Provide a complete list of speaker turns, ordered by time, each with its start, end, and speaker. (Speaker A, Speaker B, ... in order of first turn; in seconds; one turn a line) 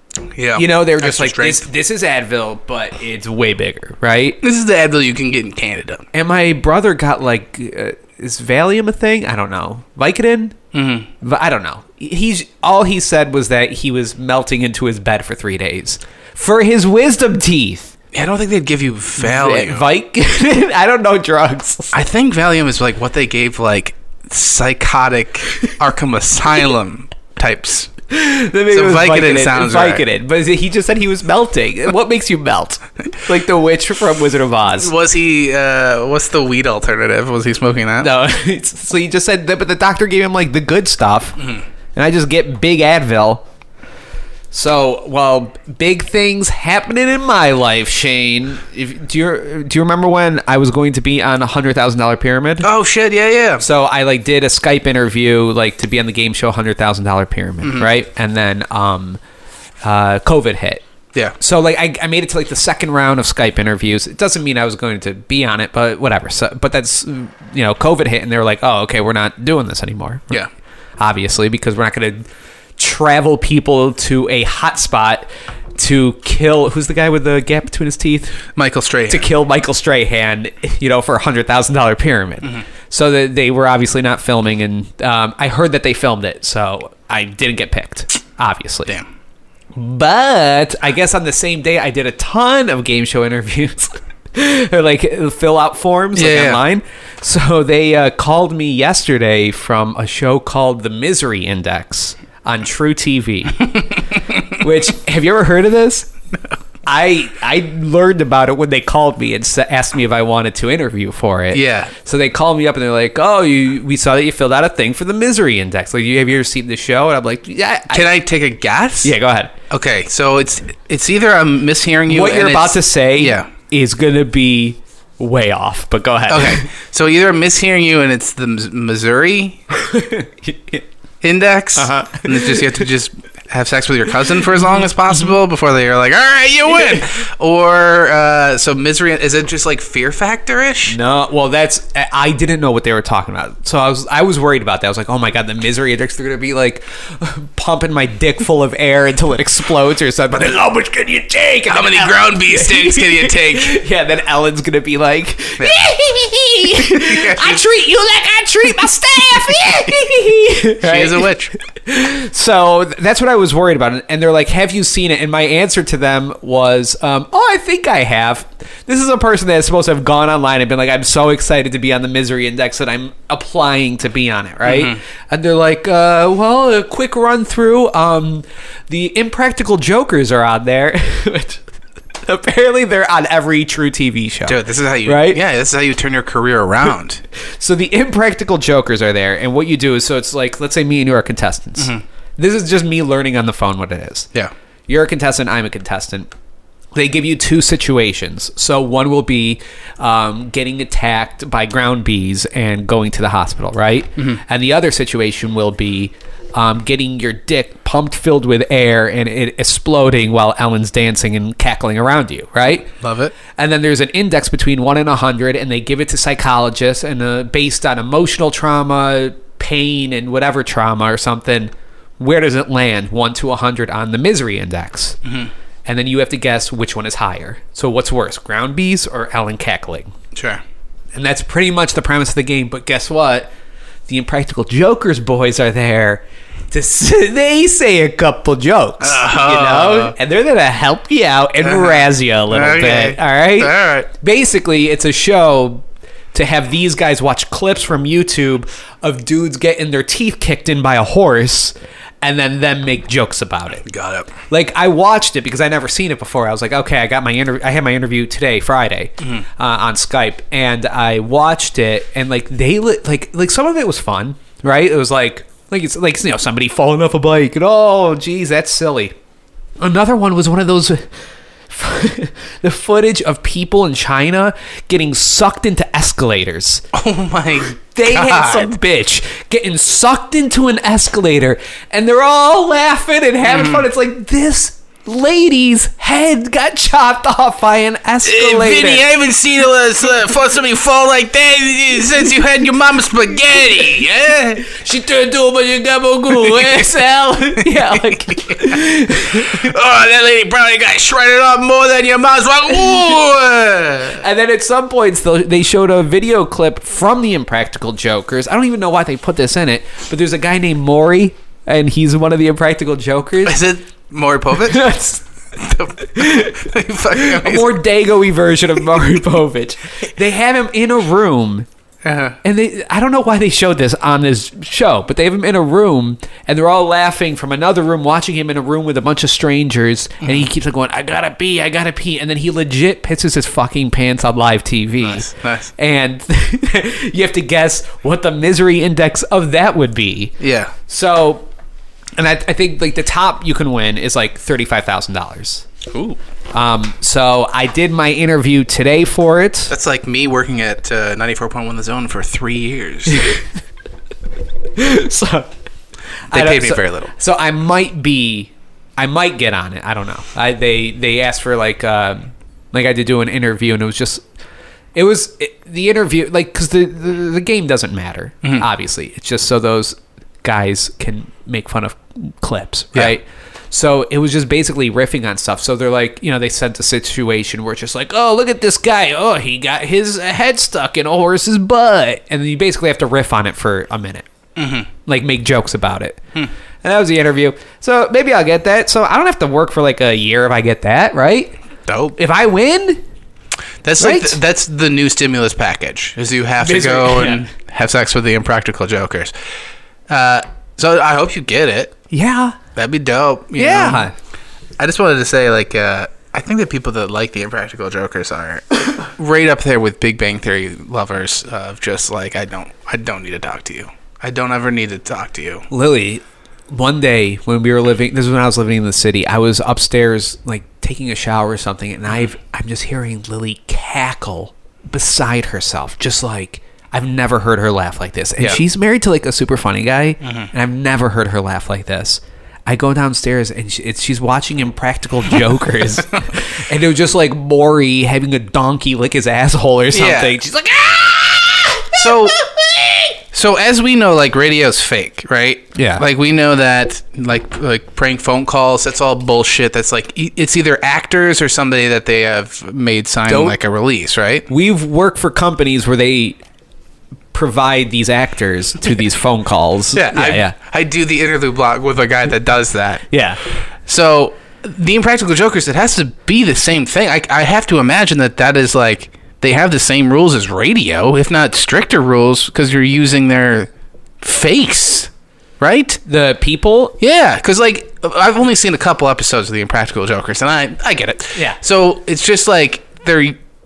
Speaker A: 0.3-1.7
Speaker B: 0.6-4.4
Speaker A: 4.4-6.1
Speaker B: 6.1-10.6
Speaker A: 10.7-11.1
Speaker B: 11.2-18.0
Speaker A: 18.1-19.9
Speaker B: 19.2-22.0
Speaker A: 21.9-27.9
Speaker B: 28.1-34.9
Speaker A: 28.7-30.0
Speaker A: 34.8-38.1
Speaker B: 38.0-43.4
Speaker B: 44.5-52.7
Speaker A: 52.6-53.6
Speaker B: 53.6-59.2
Speaker A: 57.6-57.9
Speaker B: 59.8-60.8
Speaker B: 61.4-70.4
Speaker B: 71.0-72.3
Speaker B: 72.8-78.4
Speaker A: 78.6-79.3
Speaker B: 79.1-88.9
Speaker B: 89.8-106.1
Speaker A: 96.2-96.6
Speaker B: 106.9-118.1
Speaker A: 111.5-111.9
Speaker A: 117.9-119.2
Speaker B: 119.0-119.5
Speaker A: 119.7-123.5
Speaker B: 122.1-126.7
Speaker A: 126.3-129.6
Speaker B: 129.7-130.8
Speaker A: 131.2-141.0
Speaker B: 131.8-132.9
Speaker B: 140.9-181.6
Speaker A: 151.7-153.8
Speaker A: 156.9-157.6
Speaker A: 160.8-161.5
Speaker A: 174.6-175.0
Speaker B: 182.2-185.4
Speaker A: 184.5-187.2
Speaker B: 187.6-194.3
Speaker A: 191.8-192.0
Speaker B: 194.9-196.3
Speaker B: 196.9-212.9
Speaker A: 212.9-213.3
Speaker B: 213.5-225.2
Speaker A: 225.2-225.5
Speaker B: 225.9-230.1
Speaker A: 230.3-230.6
Speaker B: 231.1-233.5
Speaker B: 234.1-253.9
Speaker A: 239.0-240.2
Speaker A: 241.6-244.1
Speaker A: 253.8-254.3
Speaker B: 254.5-269.1
Speaker B: 269.8-271.1
Speaker B: 271.7-276.8
Speaker A: 276.9-278.7
Speaker B: 277.9-289.1
Speaker A: 283.4-283.9
Speaker A: 288.2-294.7
Speaker B: 294.6-299.7
Speaker A: 296.3-296.9
Speaker A: 297.6-298.8
Speaker A: 299.3-304.2
Speaker B: 304.2-313.6
Speaker A: 313.4-314.9
Speaker B: 314.7-315.2
Speaker A: 315.5-317.8
Speaker B: 316.1-316.6
Speaker B: 317.1-321.7
Speaker A: 322.0-322.4
Speaker B: 322.4-340.3
Speaker A: 335.0-335.7
Speaker A: 340.4-340.7
Speaker B: 340.9-341.5
Speaker B: 342.2-345.7
Speaker A: 345.9-346.2
Speaker B: 346.5-349.7
Speaker A: 349.7-353.3
Speaker B: 353.1-353.5
Speaker B: 354.8-355.5
Speaker B: 356.3-364.2
Speaker A: 356.3-357.1
Speaker B: 364.9-384.3
Speaker A: 384.6-384.9
Speaker B: 385.1-386.2
Speaker B: 386.8-391.6
Speaker A: 391.9-392.2
Speaker B: 392.2-393.0
Speaker A: 393.8-399.3
Speaker B: 394.0-394.4
Speaker B: 396.6-397.5
Speaker A: 400.1-401.9
Speaker B: 402.1-402.6
Speaker A: 402.8-404.1
Speaker B: 403.6-404.1
Speaker A: 404.8-415.7
Speaker B: 415.7-443.2
Speaker A: 430.2-430.5
Speaker A: 439.9-440.4
Speaker A: 441.9-442.4
Speaker A: 443.3-454.5
Speaker B: 445.8-446.0
Speaker B: 453.3-453.6
Speaker B: 454.5-456.4
Speaker B: 457.3-460.6
Speaker A: 459.9-463.1
Speaker B: 463.1-463.4
Speaker A: 463.9-473.7
Speaker A: 474.2-476.0
Speaker B: 476.1-476.9
Speaker A: 477.0-483.4